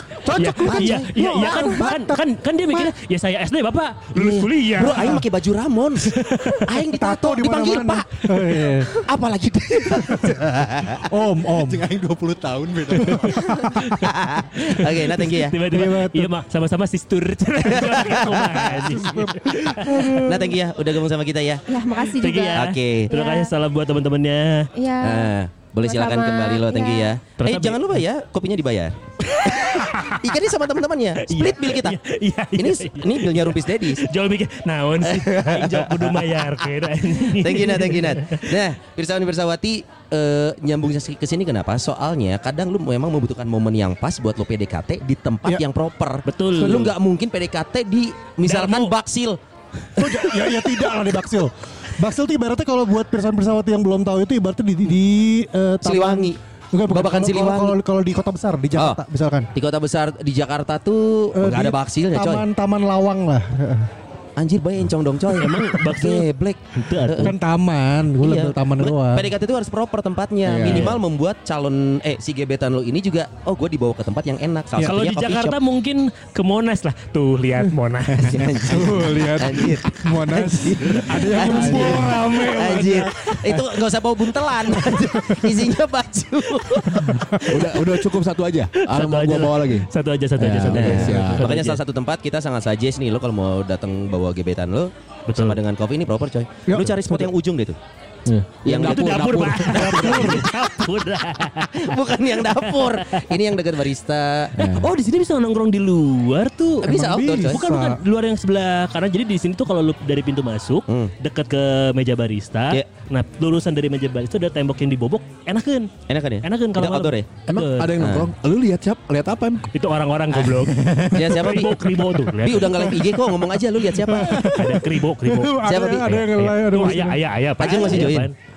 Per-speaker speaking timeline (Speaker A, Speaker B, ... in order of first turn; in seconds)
Speaker A: 0.2-2.2, 4.2-5.2, 6.1-8.9, 10.0-10.4, 11.1-11.8, 12.9-14.0, 15.7-16.3, 18.8-20.5, 50.0-59.5, 61.4-63.9, 67.2-69.3, 78.6-83.7, 84.7-85.6, 96.7-97.3, 99.7-100.5, 106.8-108.0, 124.0-127.2
Speaker B: 0.3-5.2, 6.2-6.6, 13.8-20.2, 22.2-24.7, 27.4-27.8, 29.2-30.2, 31.2-38.6, 46.3-46.9, 48.4-48.9, 65.3-67.4, 70.6-71.0, 74.8-78.5, 86.7-87.0, 88.8-91.8, 95.3-95.6, 98.8-103.4, 104.6-106.9, 107.5-115.9, 116.4-118.0, 119.7-123.0, 124.2-128.3
Speaker C: 0.5-0.9, 4.8-11.1, 14.0-15.6, 17.7-21.6, 22.6-23.1, 25.0-32.0, 32.5-34.0, 35.0-36.7, 37.2-49.4, 55.8-57.8, 58.7-59.0, 59.5-62.4, 64.4-67.3, 68.2-75.6, 78.2-87.5, 90.7-97.8, 98.7-100.4, 101.7-104.6, 106.8-107.6, 110.9-111.1, 116.1-117.3, 118.0-118.3, 120.3-124.6, 125.6-126.2, 127.6-128.3
Speaker D: 1.3-1.9, 21.7-23.5, 24.8-27.1
Speaker E: 11.5-13.5, 70.4-71.0, 81.3-82.4, 87.5-91.5, 98.3-100.3, 104.6-104.9, 117.5-119.7